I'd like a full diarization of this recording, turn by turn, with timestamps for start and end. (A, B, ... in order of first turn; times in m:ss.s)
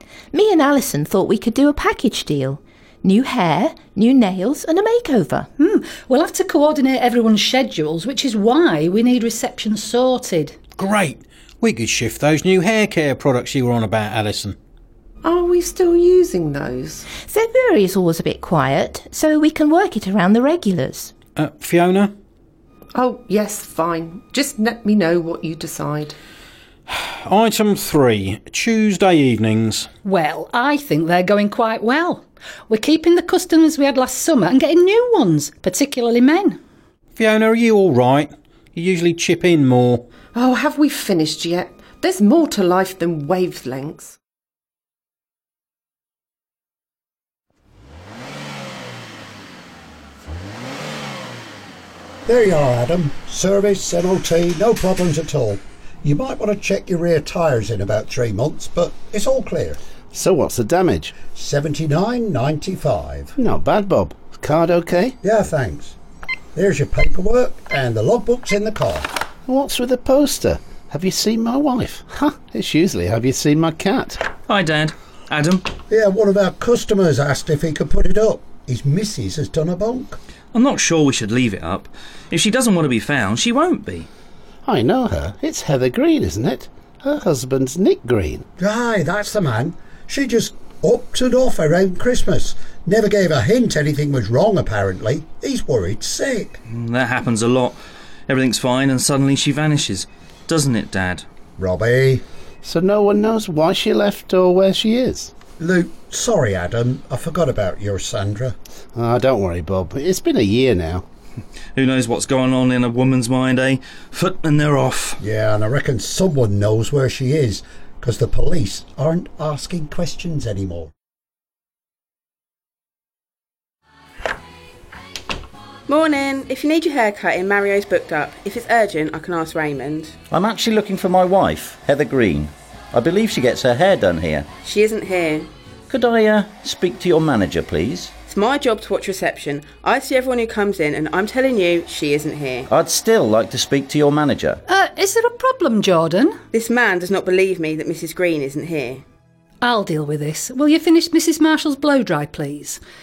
0:00.3-0:05.5 A
0:05.6-0:10.6 B
0:10.8-0:14.6 C
0:15.2-0:17.0 D
0:17.2-0:21.1 A
0:21.4-0:22.1 C
0:22.9-0:26.2 D
0:26.9-0:29.9 C
0:30.0-0:36.6 B
0:37.2-0:40.0 C
0:40.3-0:44.1 D
0:52.3-0:59.8 E
1:00.1-1:01.2 F
1:01.3-1:03.3 E
1:03.4-1:05.2 F
1:05.2-1:05.9 E
1:06.5-1:09.1 E
1:09.5-1:14.2 F
1:14.5-1:15.7 G
1:15.9-1:20.2 E
1:20.5-1:24.1 G
1:24.6-1:28.4 F
1:28.6-1:36.6 E
1:36.7-1:37.7 G
1:38.3-1:41.2 G
1:41.6-1:42.2 E
1:42.6-1:45.3 F
1:45.6-1:48.5 E
1:48.9-1:51.0 F
1:51.8-1:55.2 G
1:55.2-2:00.9 E
2:05.9-2:10.1 H
2:10.3-2:14.5 I
2:14.6-2:15.5 H
2:15.9-2:18.1 I
2:18.2-2:22.7 H
2:22.7-2:24.6 I
2:24.7-2:26.4 B
2:26.5-2:29.0 H
2:29.6-2:32.8 B